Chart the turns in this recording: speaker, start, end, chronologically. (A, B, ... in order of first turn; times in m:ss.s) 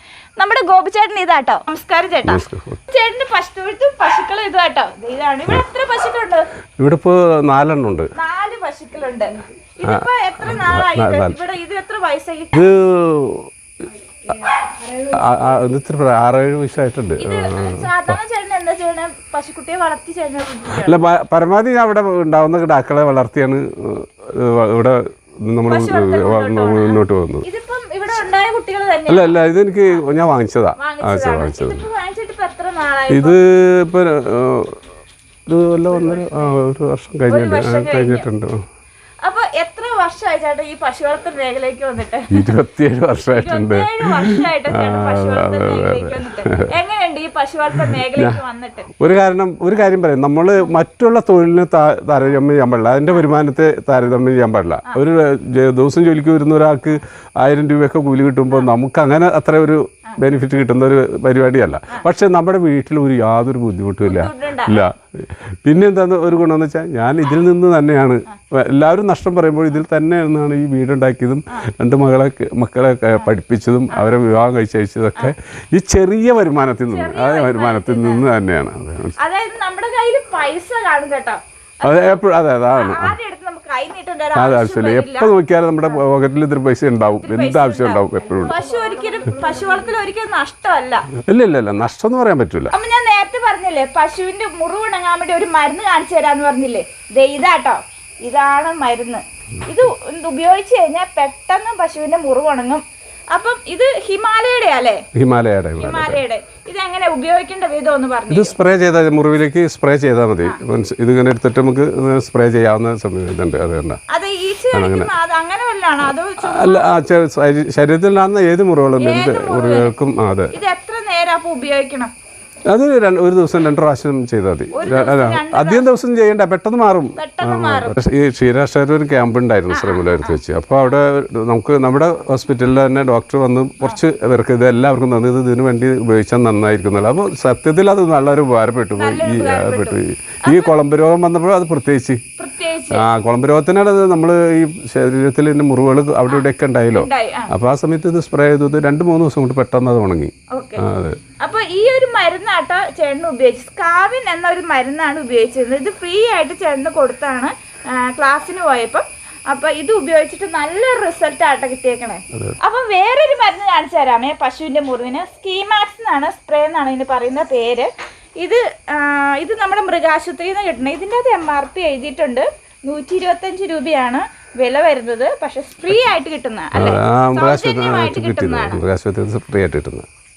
0:00.4-0:06.5 A
0:02.2-0:02.8 B
0:06.8-0:08.1 B
0:08.1-0:12.7 A
0:09.8-0:11.4 B
0:12.5-0:13.5 B
0:14.9-0:18.2 B
0:17.2-0:21.0 A
0:20.7-0:27.4 B
0:25.7-0:30.1 A
0:29.1-0:31.8 B
0:30.8-0:33.4 A
0:33.1-0:34.8 B
0:35.5-0:38.6 B
0:35.9-0:36.6 A
0:37.3-0:38.3 A
0:39.2-0:42.5 A
0:42.3-0:46.7 B
0:43.3-0:48.9 A
0:47.8-0:48.4 B
0:49.0-1:19.2 B
1:04.0-1:04.8 A
1:16.9-1:18.3 A
1:19.2-1:26.0 A
1:21.8-1:23.2 B
1:24.4-1:28.6 B
1:27.2-1:31.1 A
1:31.2-1:32.7 B
1:32.7-1:45.0 A
1:45.1-1:46.2 B
1:45.8-1:48.6 A
1:48.3-1:54.0 B
1:54.1-1:56.9 A
1:54.7-1:55.1 B
1:56.4-2:00.5 B
1:59.0-1:59.9 A
2:00.5-2:02.1 A
2:02.7-2:22.2 B
2:04.7-2:05.9 A
2:07.2-2:08.0 A
2:09.7-2:10.4 A
2:19.0-2:20.8 A
2:22.4-2:23.1 A
2:22.9-2:31.2 B
2:26.3-2:27.5 A
2:30.5-2:30.8 A
2:31.4-2:58.8 A
2:56.7-3:00.1 B